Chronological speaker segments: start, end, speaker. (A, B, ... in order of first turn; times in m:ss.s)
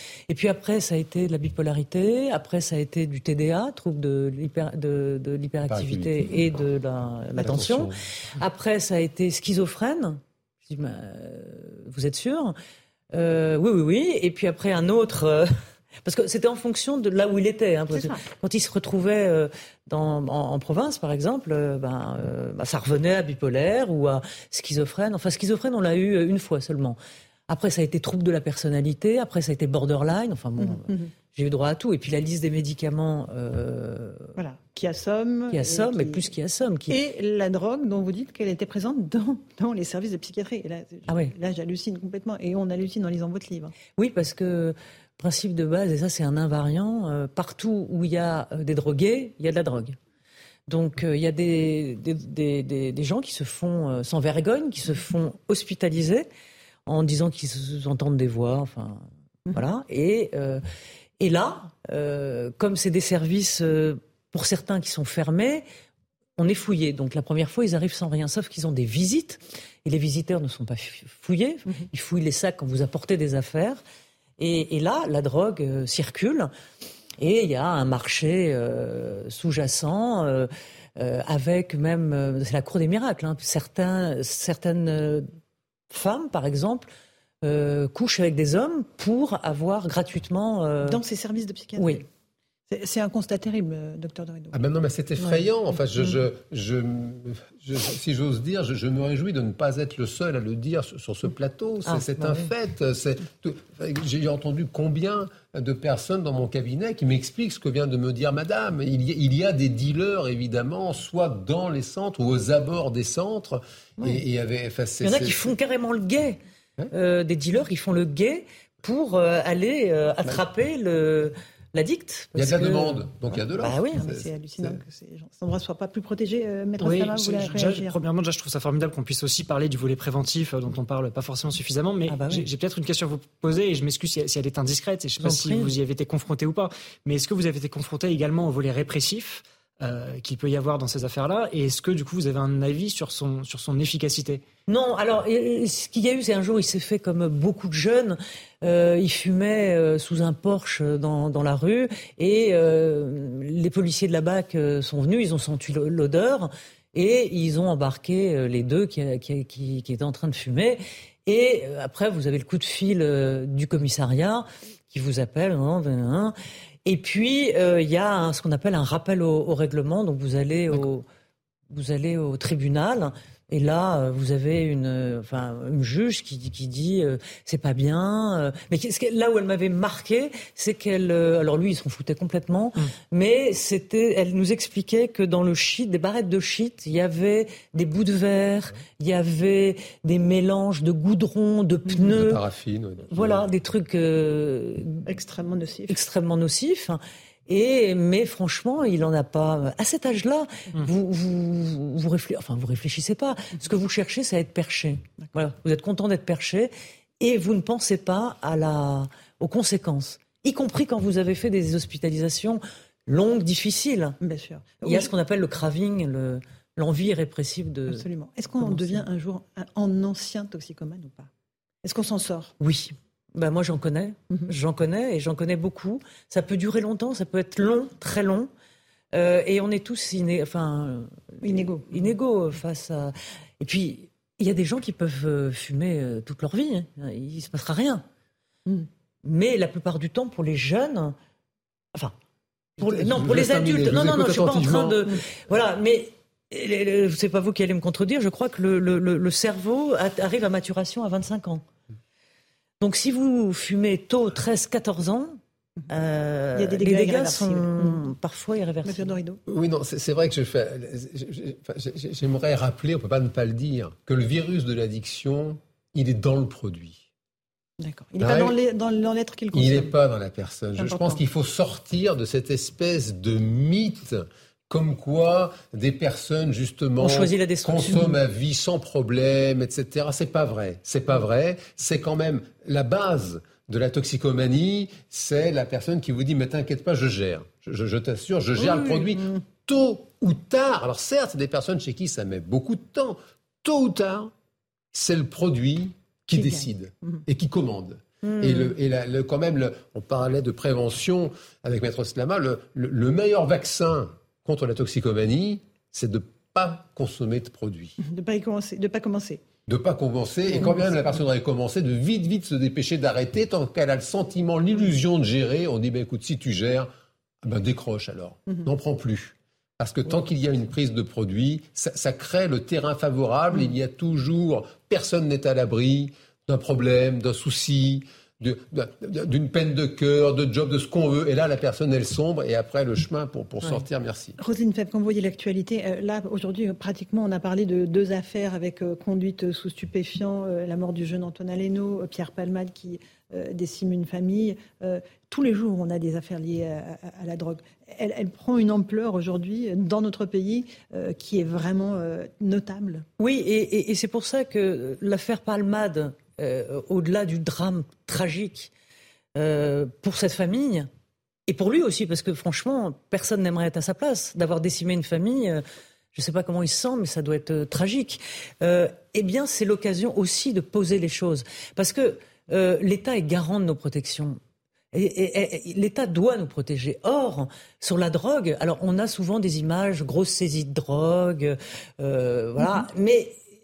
0:00.3-0:12.6 A
0:05.7-0:06.3 B
0:07.4-0:08.0 B
0:13.1-0:15.5 A
0:16.0-0:27.0 A
0:17.9-0:18.3 C
0:27.5-0:34.3 A
0:30.6-0:31.1 C
0:34.4-0:36.3 C
0:35.5-0:37.0 A
0:36.9-0:43.7 C
0:44.0-0:50.0 A
0:50.7-0:56.3 A
0:56.9-1:00.6 A
1:01.2-1:05.6 A
1:06.4-1:13.8 A
1:14.4-1:16.5 A
1:17.2-1:25.3 A
1:25.9-1:26.9 A
1:27.4-1:31.0 A
1:30.8-1:32.0 C
1:31.8-1:32.0 A
1:32.7-1:34.6 C
1:34.5-1:55.5 B
1:41.8-1:42.5 A
1:55.0-1:56.4 A
1:56.9-2:04.0 A
2:02.3-2:04.8 B
2:04.0-2:07.9 C
2:06.8-2:24.4 D
2:12.1-2:12.5 A
2:15.2-2:15.7 A
2:24.7-2:46.3 A
2:46.8-2:51.0 A
2:51.7-3:12.4 A
3:12.1-3:13.4 B
3:13.1-3:15.1 A
3:15.0-3:16.0 C
3:15.9-3:34.2 A
3:34.2-3:35.1 C
3:34.8-3:38.0 A
3:37.9-3:41.3 C
3:38.6-3:39.0 A
3:41.8-3:42.6 C
3:42.6-3:48.5 A
3:49.1-3:58.0 A
3:51.4-3:52.1 C
3:59.2-4:01.2 A
4:02.8-4:05.0 B
4:02.8-4:11.6 A
4:12.8-4:15.4 A
4:15.9-4:19.1 A
4:16.6-4:18.1 C
4:18.8-4:19.4 C
4:19.5-4:27.1 B
4:27.8-4:29.9 C
4:28.2-4:28.6 B
4:29.5-4:54.3 B
4:30.8-4:31.2 C
4:37.0-4:38.2 A
4:48.6-4:49.4 C
4:54.9-5:08.0 B
4:56.3-4:57.2 C
4:58.4-4:58.7 A
5:08.0-5:09.4 C
5:09.7-5:16.9 B
5:10.5-5:11.0 C
5:17.4-5:34.4 B
5:34.4-5:53.0 C
5:53.2-5:58.7 A
5:59.4-6:00.9 A
6:01.5-6:14.4 A
6:14.9-6:23.4 A
6:22.6-6:22.9 C